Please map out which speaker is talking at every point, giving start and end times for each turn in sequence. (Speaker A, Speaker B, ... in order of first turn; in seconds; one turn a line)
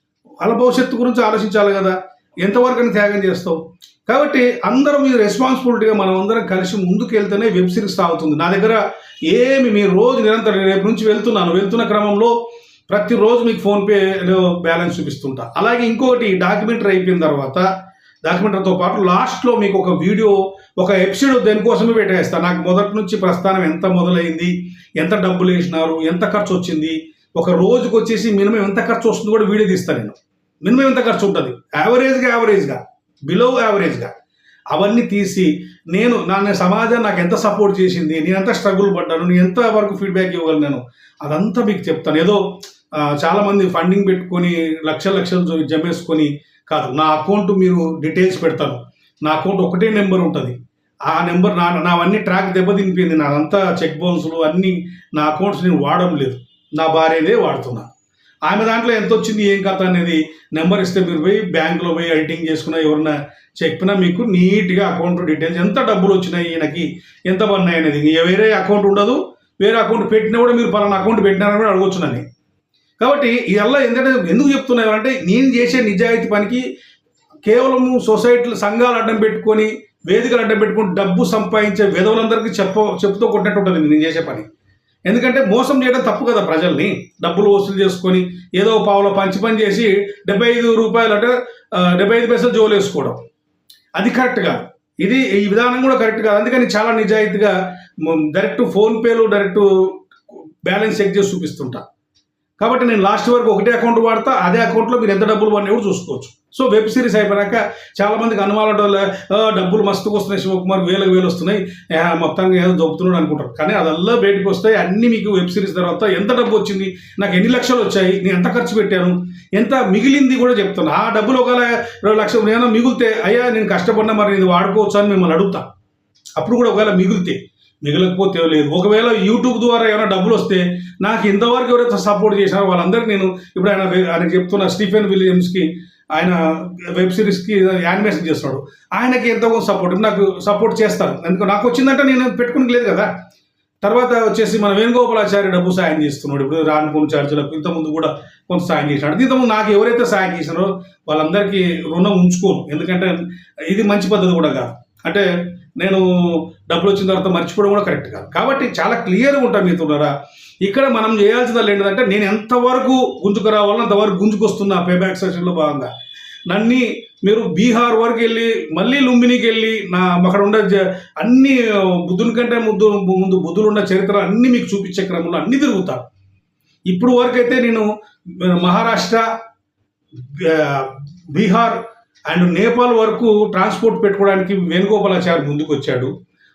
Speaker A: 0.4-12.3
Speaker A: 12.9-17.6
Speaker A: 18.2-34.1
Speaker A: 34.7-42.4
Speaker A: 43.0-50.6
Speaker A: 51.1-57.9
Speaker A: 58.5-72.2
Speaker A: 73.0-76.6
Speaker A: 77.5-84.5
Speaker A: 85.1-93.2
Speaker A: 94.0-100.0
Speaker A: 100.7-101.8
Speaker A: 102.6-125.7
Speaker A: 126.4-143.1
Speaker A: 143.8-160.1
Speaker A: 160.6-165.9
Speaker A: 166.5-176.1
Speaker A: 176.9-179.2
Speaker A: 180.2-186.1